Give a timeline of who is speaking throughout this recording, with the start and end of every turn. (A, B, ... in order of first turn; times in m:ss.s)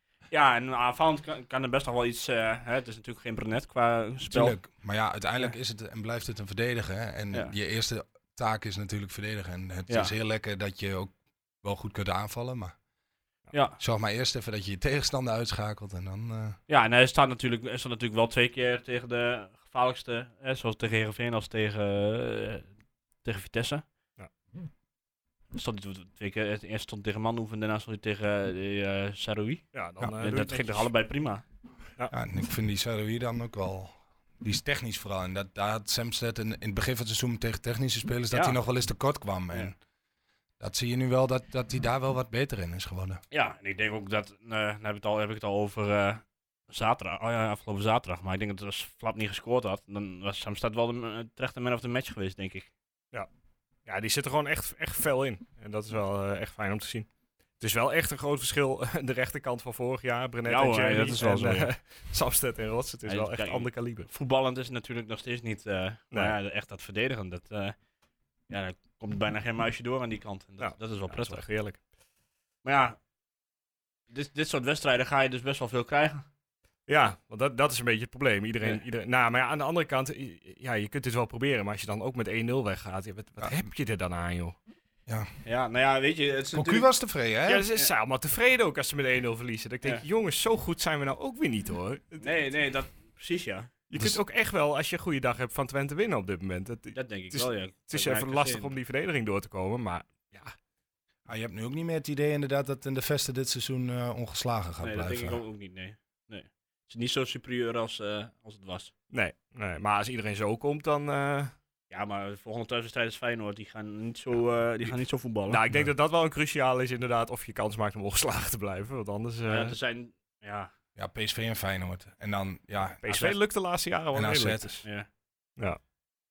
0:00.3-0:04.6 A
0:04.3-0:12.7 B
0:13.5-0:13.8 A
0:13.8-0:16.6 B
0:16.7-0:22.7 A
0:23.2-0:23.8 A
0:25.5-0:29.6 A
0:29.7-0:30.9 C
0:30.2-0:31.4 A
0:32.1-0:39.8 B
0:38.3-0:38.6 A
0:40.6-0:43.2 B
0:43.3-0:52.7 A
0:53.9-0:57.1 C
0:57.6-1:04.1 C
1:00.5-1:01.7 A
1:03.1-1:07.8 A
1:08.5-1:11.4 A
1:10.6-1:11.8 C
1:12.6-1:13.0 A
1:14.1-1:16.2 A
1:16.9-1:24.6 C
1:25.4-1:26.9 A
1:26.5-1:27.7 B
1:27.5-1:32.3 C
1:32.2-1:33.7 A
1:33.9-1:40.6 C
1:36.9-1:38.7 A
1:41.3-1:45.4 B
1:44.8-1:48.9 A
1:49.1-1:51.5 C
1:51.9-1:55.6 A
1:55.5-1:59.8 C
1:59.5-2:00.7 A
2:01.0-2:03.0 B
2:03.0-2:04.8 C
2:03.1-2:03.4 A
2:04.1-2:04.8 B